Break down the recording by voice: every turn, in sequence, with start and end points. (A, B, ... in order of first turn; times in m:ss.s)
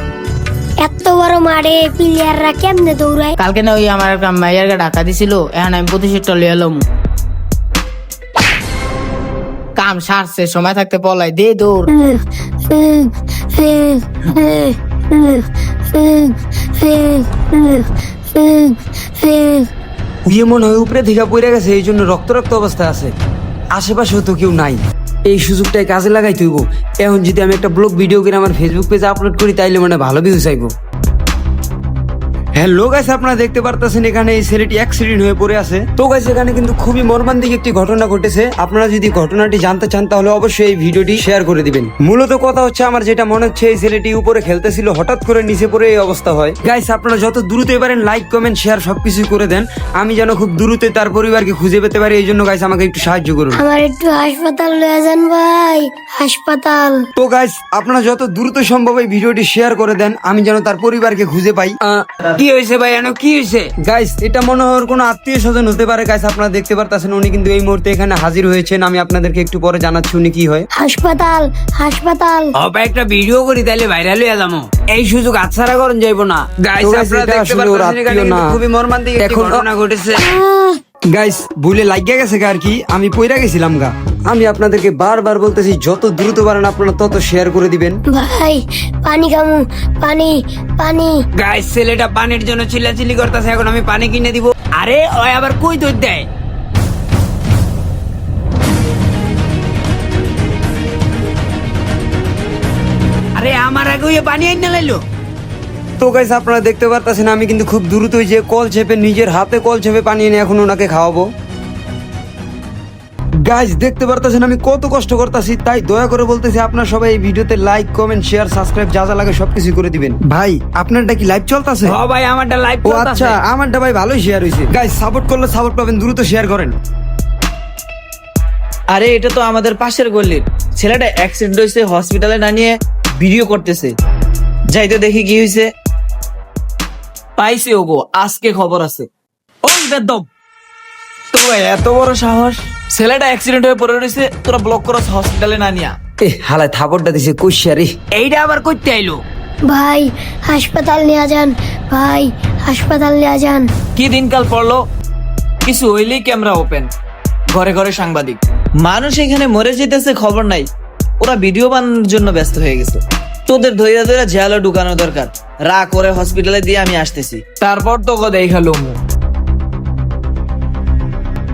0:00.8-0:03.4 A
0:03.4-0:06.8 B
0:09.8-0:11.9 B
0:11.9-0:19.7 A
0:20.2-0:23.1 C
0:23.7-0:30.7 C
0:32.6-0:53.6 C
0:53.6-0:57.0 A
0:57.2-1:01.8 C
1:02.4-1:03.8 D
1:03.8-1:10.7 C
1:10.8-1:12.5 A
1:12.6-1:20.2 D
1:16.8-1:18.6 C
1:19.1-1:19.7 C
1:20.2-1:20.8 A
1:21.1-1:28.0 C
1:28.1-1:31.2 A
1:31.4-1:36.2 D
1:43.3-1:45.0 D
1:46.0-1:51.3 C
1:53.4-2:02.0 C
2:01.8-2:03.4 D
2:02.8-2:06.7 C
2:08.9-2:13.9 E
2:14.7-2:15.7 E
2:17.4-2:19.1 E
2:19.6-2:20.2 E
2:21.3-2:26.0 E
2:26.2-2:27.9 C
2:28.1-2:29.2 D
2:29.6-2:33.7 A
2:34.0-2:34.8 E
2:35.6-2:36.9 E
2:37.5-2:49.0 E